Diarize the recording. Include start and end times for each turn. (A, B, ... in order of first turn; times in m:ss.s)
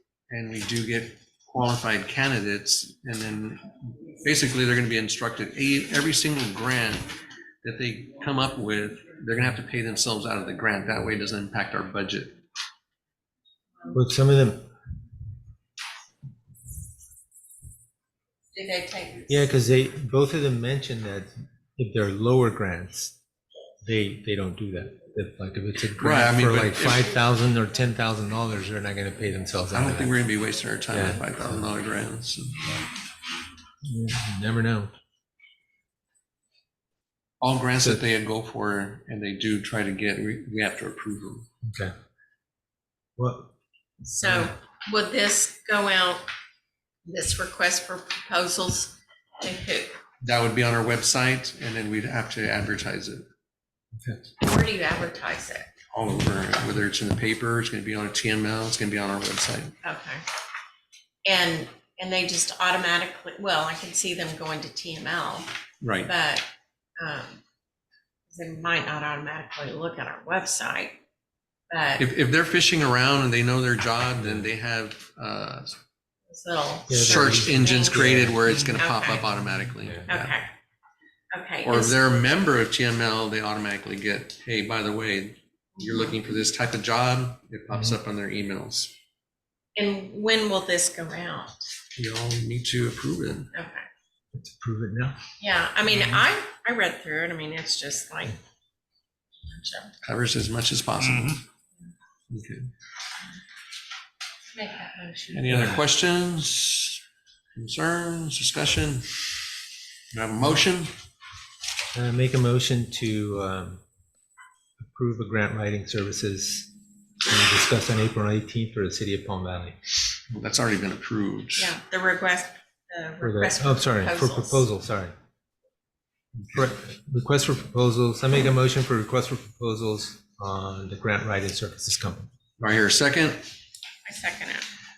0:00.3-0:07.1 A
0:07.6-0:12.4 A
0:13.9-0:14.7 B
0:18.5-0:19.4 C
0:19.3-0:23.1 B
0:23.8-0:30.2 B
0:26.0-0:27.1 A
0:29.7-0:32.8 A
0:30.9-0:31.7 B
0:33.8-0:34.9 B
0:37.4-0:41.5 A
0:41.6-0:41.9 B
0:43.2-0:43.5 B
0:44.0-0:46.2 C
0:44.2-0:44.5 B
0:47.0-0:50.0 C
0:50.2-0:53.2 A
0:54.4-0:55.7 C
0:55.9-0:59.7 A
0:59.8-1:00.2 C
1:01.2-1:05.5 C
1:05.8-1:06.1 A
1:06.0-1:06.5 C
1:07.0-1:07.4 C
1:08.3-1:11.0 C
1:11.7-1:12.0 C
1:12.0-1:15.8 A
1:14.2-1:14.5 B
1:16.3-1:18.1 C
1:16.9-1:18.8 B
1:16.9-1:20.4 A
1:18.7-1:19.2 C
1:19.3-1:20.1 B
1:20.1-1:20.5 C
1:21.3-1:22.0 C
1:21.6-1:28.9 A
1:27.7-1:28.0 B
1:29.8-1:31.7 C
1:31.9-1:33.5 A
1:33.5-1:33.8 C
1:34.3-1:35.2 B
1:35.4-1:38.4 C
1:39.4-1:39.9 C
1:40.0-1:41.4 A
1:42.3-1:42.7 A
1:44.5-1:45.7 C
1:45.3-1:47.0 A
1:45.5-1:45.8 B
1:47.5-1:49.1 A
1:50.1-1:50.9 A
1:51.9-1:53.8 B
1:54.8-1:56.7 B
1:57.2-1:59.8 B
2:00.3-2:01.8 A
2:01.6-2:04.6 C
2:03.2-2:05.1 B
2:06.5-2:12.3 B
2:12.6-2:13.4 A
2:14.0-2:14.7 C